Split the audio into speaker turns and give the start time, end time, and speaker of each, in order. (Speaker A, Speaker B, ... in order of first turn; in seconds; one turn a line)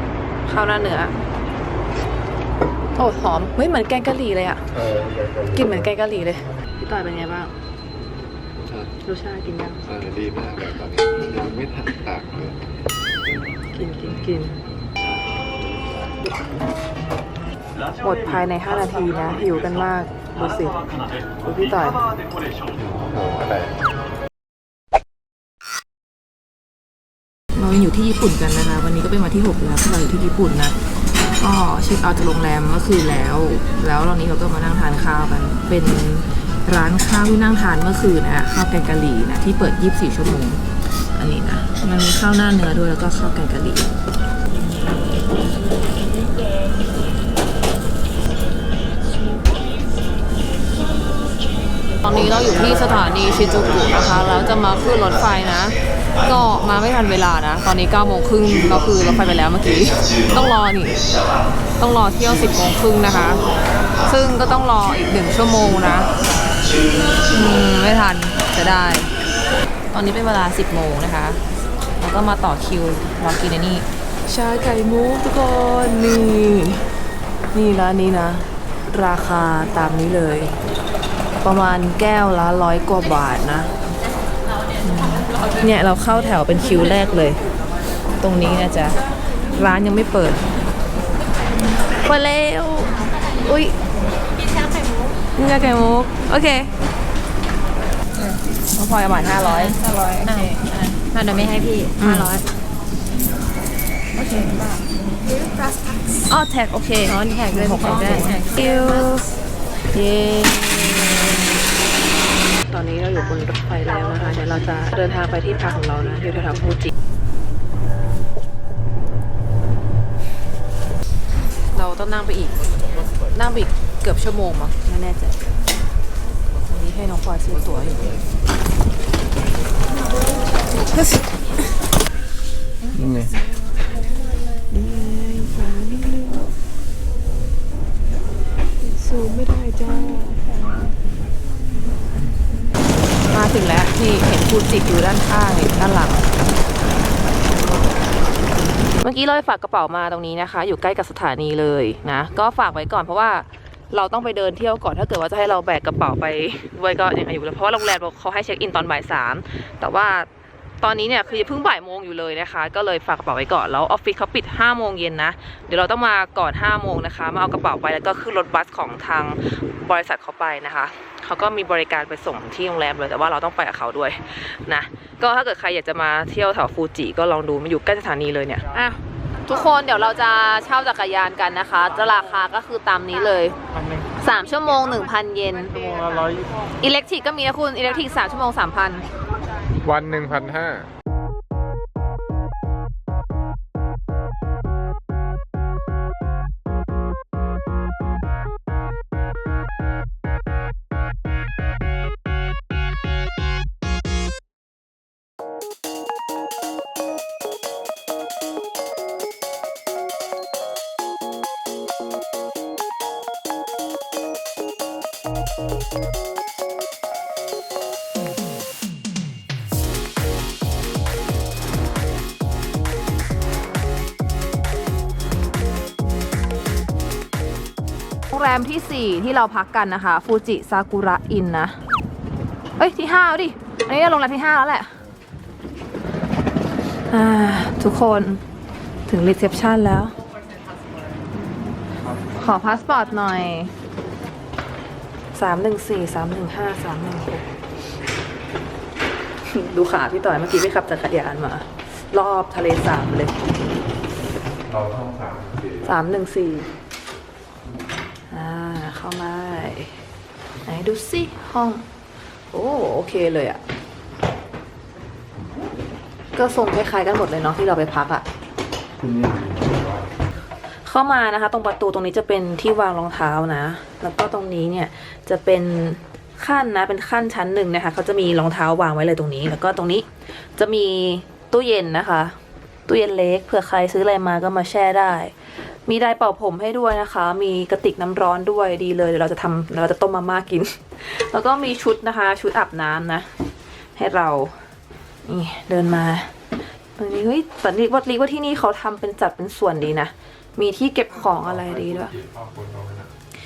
Speaker A: 0.5-1.1
Speaker A: 3.0-4.7
Speaker B: 4.7-5.9
Speaker A: 5.5-7.5
Speaker B: 8.6-8.9
Speaker A: 9.0-9.8
Speaker B: 9.8-12.6
Speaker A: 13.7-14.6
Speaker A: 18.0-20.9
Speaker A: 21.4-22.0
Speaker B: 22.8-23.7
Speaker A: 27.6-30.8
Speaker A: 31.4-40.6
Speaker A: 41.1-43.9
Speaker A: 52.0-61.0
Speaker A: 61.8-63.4
Speaker A: 64.0-66.1
Speaker A: 67.3-69.1
Speaker A: 69.9-71.4
Speaker A: 72.0-76.8
Speaker A: 77.5-80.5
Speaker A: 81.4-83.7
Speaker A: 84.8-87.4
Speaker A: 88.2-89.0
Speaker A: 89.5-90.4
Speaker A: 92.0-93.8
Speaker A: 95.4-96.7
Speaker A: 98.8-100.8
Speaker C: 99.6-102.4
Speaker A: 102.0-102.3
Speaker C: 104.2-104.8
Speaker A: 106.3-109.3
Speaker C: 107.0-108.5
Speaker A: 109.9-111.5
Speaker A: 112.7-116.9
Speaker A: 121.7-122.7
Speaker A: 123.3-125.4
Speaker A: 126.7-128.1
Speaker B: 132.9-133.3
Speaker A: 134.7-136.4
Speaker A: 138.9-140.5
Speaker A: 143.3-146.3
Speaker A: 149.0-160.3
Speaker A: 160.8-183.5
Speaker A: 184.2-186.0
Speaker A: 186.8-189.0
Speaker B: 189.8-190.9
Speaker A: 228.3-231.8
Speaker A: 232.8-234.9
Speaker A: 237.1-238.4
Speaker A: 239.1-240.1
Speaker A: 242.3-243.7
Speaker A: 245.3-247.4
Speaker A: 249.5-253.3
Speaker B: 254.7-255.9
Speaker A: 255.8-256.7
Speaker A: 258.3-260.0
Speaker A: 260.6-261.8
Speaker A: 262.5-263.6
Speaker A: 266.4-268.2
Speaker B: 269.0-270.1
Speaker A: 270.8-282.4
Speaker A: 282.9-285.3
Speaker A: 285.9-293.3
Speaker A: 294.0-294.6
Speaker A: 295.2-296.3
Speaker A: 297.0-302.1
Speaker B: 301.2-303.1